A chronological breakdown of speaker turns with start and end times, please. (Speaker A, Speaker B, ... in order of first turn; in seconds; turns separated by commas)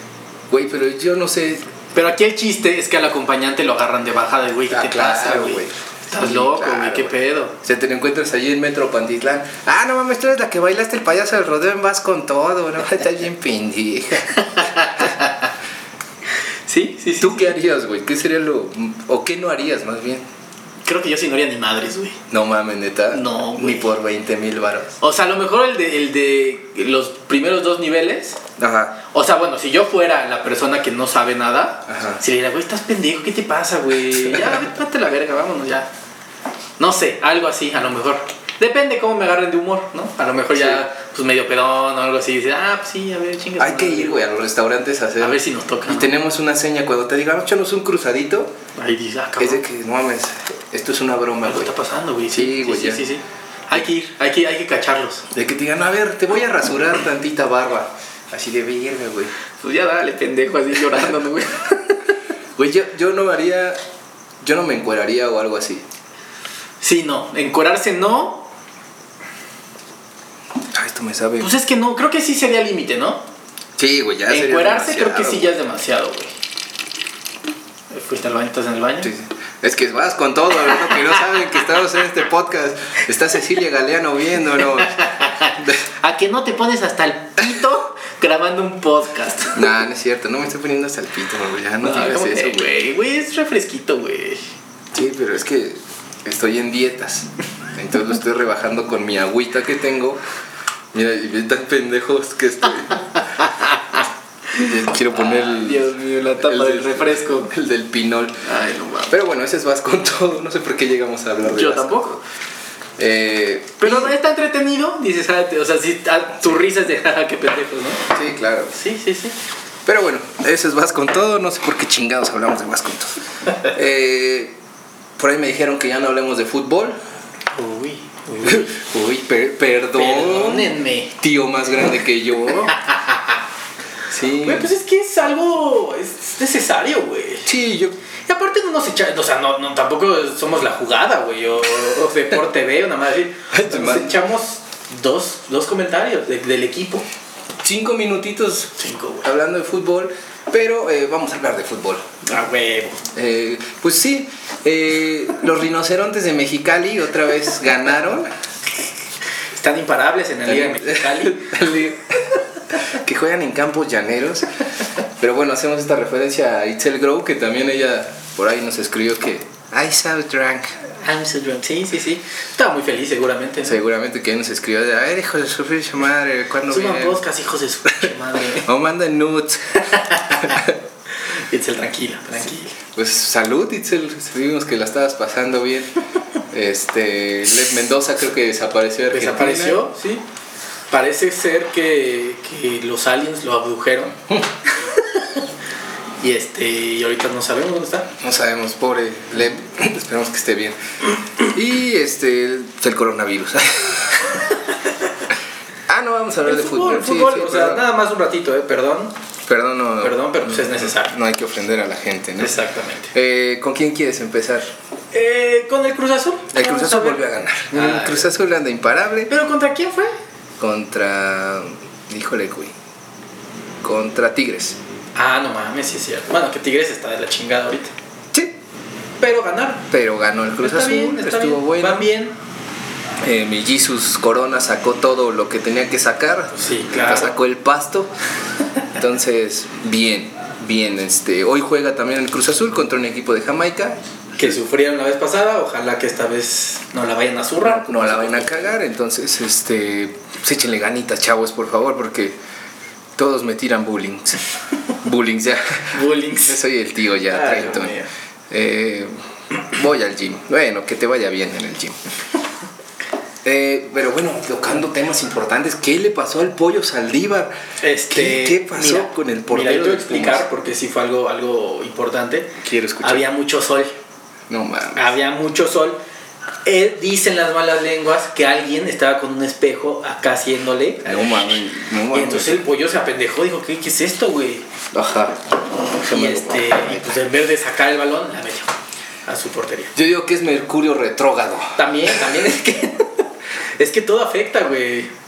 Speaker A: 0.5-1.7, Speaker B: 1.9-7.5, Speaker A: 4.7-15.0, Speaker B: 14.3-15.5, Speaker B: 16.7-17.5, Speaker A: 17.2-20.2, Speaker B: 20.8-22.2, Speaker A: 22.3-24.9, Speaker B: 23.1-23.9, Speaker B: 25.0-28.4, Speaker A: 28.6-29.0, Speaker B: 29.1-35.9, Speaker A: 31.9-32.2, Speaker B: 36.8-44.2, Speaker A: 40.5-40.8, Speaker A: 43.6-48.5, Speaker B: 45.2-46.1, Speaker B: 48.7-49.6, Speaker A: 49.4-51.7, Speaker B: 51.4-55.3, Speaker A: 52.3-53.0, Speaker A: 55.3-59.3, Speaker B: 59.6-62.0, Speaker A: 62.6-63.8, Speaker A: 64.4-65.8, Speaker B: 66.8-68.5, Speaker A: 70.7-71.5, Speaker B: 71.4-73.2, Speaker A: 73.8-75.5, Speaker B: 74.3-76.3, Speaker B: 77.9-79.1, Speaker A: 79.0-85.0, Speaker B: 84.7-89.6, Speaker A: 89.5-92.7, Speaker B: 91.8-94.5, Speaker A: 94.9-100.2, Speaker A: 100.9-103.2, Speaker B: 103.4-107.5, Speaker A: 104.5-105.9, Speaker A: 106.4-108.4, Speaker B: 108.4-109.2, Speaker A: 109.1-112.2, Speaker B: 111.4-112.2, Speaker A: 113.0-114.1, Speaker B: 113.8-118.0, Speaker A: 118.1-118.7, Speaker B: 118.7-119.3, Speaker A: 119.8-124.5, Speaker A: 125.2-127.0, Speaker B: 127.5-128.7, Speaker A: 128.4-132.8, Speaker B: 129.9-131.1, Speaker B: 132.8-133.3, Speaker A: 134.1-134.7, Speaker B: 134.3-137.5, Speaker A: 137.4-138.0, Speaker B: 138.3-147.1, Speaker A: 143.5-144.1, Speaker A: 147.6-152.2, Speaker B: 148.8-149.3, Speaker B: 152.2-153.0, Speaker A: 153.1-158.3, Speaker B: 159.5-161.5, Speaker A: 160.5-164.5, Speaker A: 165.2-170.8, Speaker B: 170.9-173.8, Speaker A: 173.6-177.2, Speaker B: 176.7-178.7, Speaker A: 178.0-180.8, Speaker B: 179.8-180.6, Speaker B: 181.2-182.7, Speaker A: 182.9-185.9, Speaker A: 186.5-189.8, Speaker B: 189.1-190.2, Speaker B: 190.9-194.2, Speaker B: 195.0-195.4, Speaker B: 196.2-198.1, Speaker A: 198.2-200.8, Speaker A: 201.4-204.4, Speaker A: 205.9-207.8, Speaker B: 206.4-209.1, Speaker A: 209.5-212.6, Speaker B: 210.0-211.2, Speaker B: 212.4-213.1, Speaker A: 213.1-214.7, Speaker B: 215.1-218.3, Speaker A: 216.5-219.3, Speaker B: 219.3-220.1, Speaker A: 220.6-222.7, Speaker A: 223.8-224.8, Speaker B: 225.1-227.9, Speaker B: 229.2-229.9, Speaker A: 229.9-232.1, Speaker B: 230.6-232.3, Speaker A: 233.2-238.1, Speaker B: 236.5-237.3, Speaker A: 238.9-244.5, Speaker B: 244.4-248.7, Speaker A: 247.6-252.4, Speaker A: 253.2-254.4, Speaker A: 255.0-258.0, Speaker B: 255.9-256.6, Speaker B: 257.3-258.1, Speaker A: 258.5-262.0, Speaker A: 263.4-267.5, Speaker B: 267.8-273.9, Speaker A: 268.1-270.4, Speaker A: 272.6-273.2, Speaker A: 274.5-275.1, Speaker B: 274.9-276.0, Speaker B: 276.6-281.5, Speaker A: 281.0-282.7, Speaker B: 282.1-284.6, Speaker A: 284.9-285.4, Speaker A: 285.9-287.1, Speaker B: 286.0-288.7, Speaker B: 289.2-289.9, Speaker A: 289.9-291.8, Speaker B: 291.8-293.2, Speaker B: 293.8-295.1